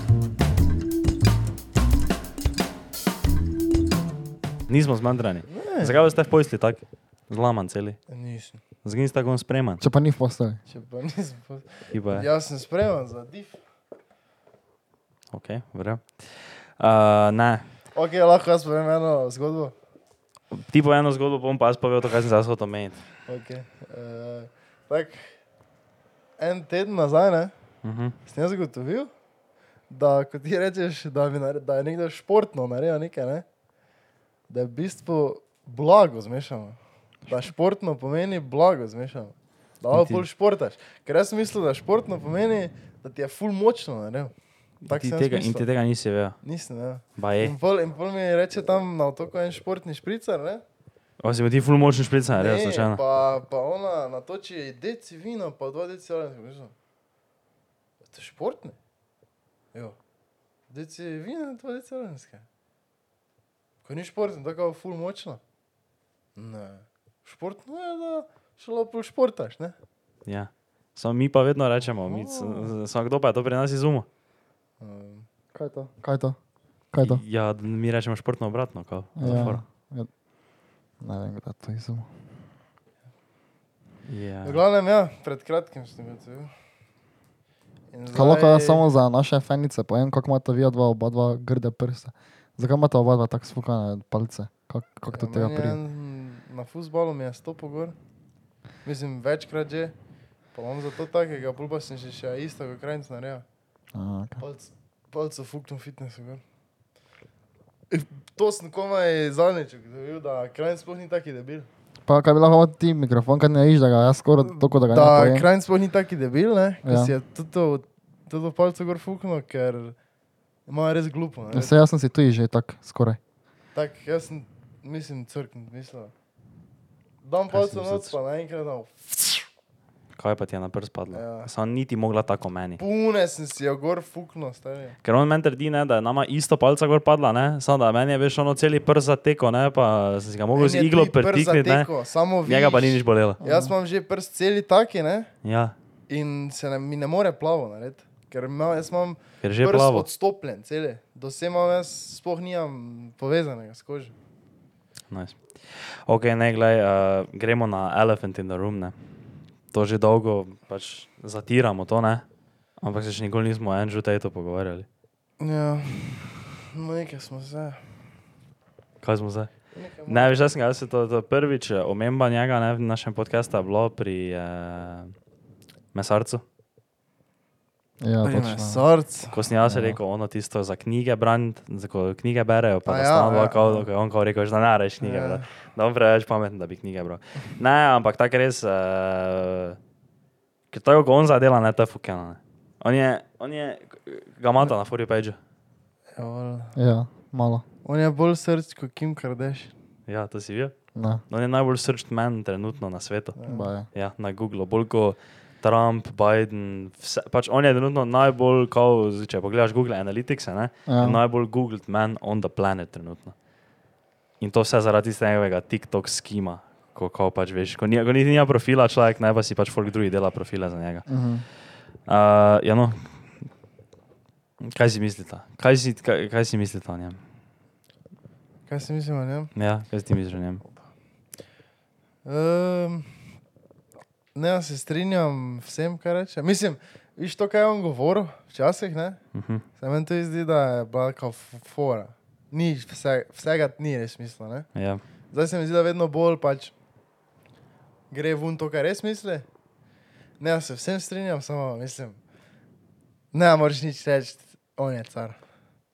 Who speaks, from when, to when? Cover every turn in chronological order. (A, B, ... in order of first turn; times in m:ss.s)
0:04.7-0:08.0 A
0:05.5-0:06.0 B
0:08.1-0:08.6 B
0:08.8-0:09.8 A
0:09.8-0:10.6 C
0:10.7-0:13.6 B
0:11.9-0:12.2 A
0:15.3-0:16.2 A
0:16.8-0:17.6 A
0:17.9-0:19.7 B
0:20.5-0:23.0 A
0:23.3-0:25.3 B
0:26.4-0:27.5 B
0:27.8-0:28.1 A
0:28.2-0:29.1 B
0:29.9-0:33.4 B
0:34.5-0:44.3 B
0:39.9-0:40.2 A
0:44.8-0:46.4 A
0:44.9-0:45.7 B
0:46.4-0:50.6 B
0:47.2-0:47.5 A
0:51.2-0:53.0 A
0:52.4-0:56.7 B
0:58.0-0:58.8 B
1:00.7-1:02.4 B
1:03.8-1:05.4 B
1:06.4-1:09.8 B
1:10.2-1:14.1 A
1:12.0-1:12.7 B
1:14.8-1:15.2 B
1:15.5-1:16.4 C
1:16.9-1:17.2 C
1:17.0-1:19.6 A
1:19.2-1:20.1 C
1:19.3-1:19.5 B
1:21.0-1:22.1 C
1:24.1-1:24.6 A
1:24.4-1:26.5 B
1:27.9-1:28.8 B
1:28.1-1:35.8 C
1:35.1-1:37.9 B
1:38.8-1:39.9 B
1:40.5-1:43.4 B
1:43.9-1:44.4 C
1:44.4-1:46.4 B
1:47.9-1:51.7 B
1:52.0-1:55.5 C
1:54.4-2:00.0 B
1:56.8-1:57.1 C
2:00.7-2:01.7 B
2:01.5-2:03.2 C
2:03.7-2:06.1 B
2:07.2-2:09.5 B
2:07.5-2:08.2 A
2:10.2-2:12.8 A
2:11.1-2:11.5 B
2:12.8-2:15.0 B
2:15.0-2:21.9 A
2:20.5-2:25.3 B
2:22.4-2:23.4 A
2:23.4-2:23.7 C
2:25.4-2:25.7 A
2:26.1-2:34.1 B
2:29.4-2:30.1 A
2:35.1-2:38.9 A
2:39.7-2:42.2 A
2:42.8-2:44.9 A
2:45.4-2:47.8 B
2:49.0-2:49.5 A
2:49.7-2:50.3 B
2:50.1-2:55.1 A
2:55.9-2:56.4 A
2:58.0-2:58.8 C
2:58.2-2:59.4 B
2:59.3-3:09.8 A
2:59.6-3:00.0 C
3:02.8-3:03.9 B
3:05.0-3:05.4 B
3:10.7-3:15.4 A
3:16.2-3:16.7 B
3:16.8-3:17.6 C
3:17.8-3:19.7 B
3:20.1-3:20.7 A
3:20.9-3:21.2 C
3:21.3-3:23.4 A
3:23.4-3:23.7 B
3:23.5-3:23.9 C
3:23.9-3:33.3 A
3:30.8-3:31.2 C
3:34.4-3:41.1 A
3:41.1-3:41.4 C
3:42.1-3:43.0 A
3:44.6-3:47.2 A
3:48.7-3:49.5 B
3:49.5-3:50.6 A
3:52.2-3:53.1 B
3:54.3-3:59.2 B
3:59.3-3:59.6 A
3:59.8-4:04.7 B
4:04.7-4:05.0 A
4:05.3-4:06.7 B
4:08.1-4:09.4 B
4:10.4-4:12.2 B
4:13.3-4:15.4 B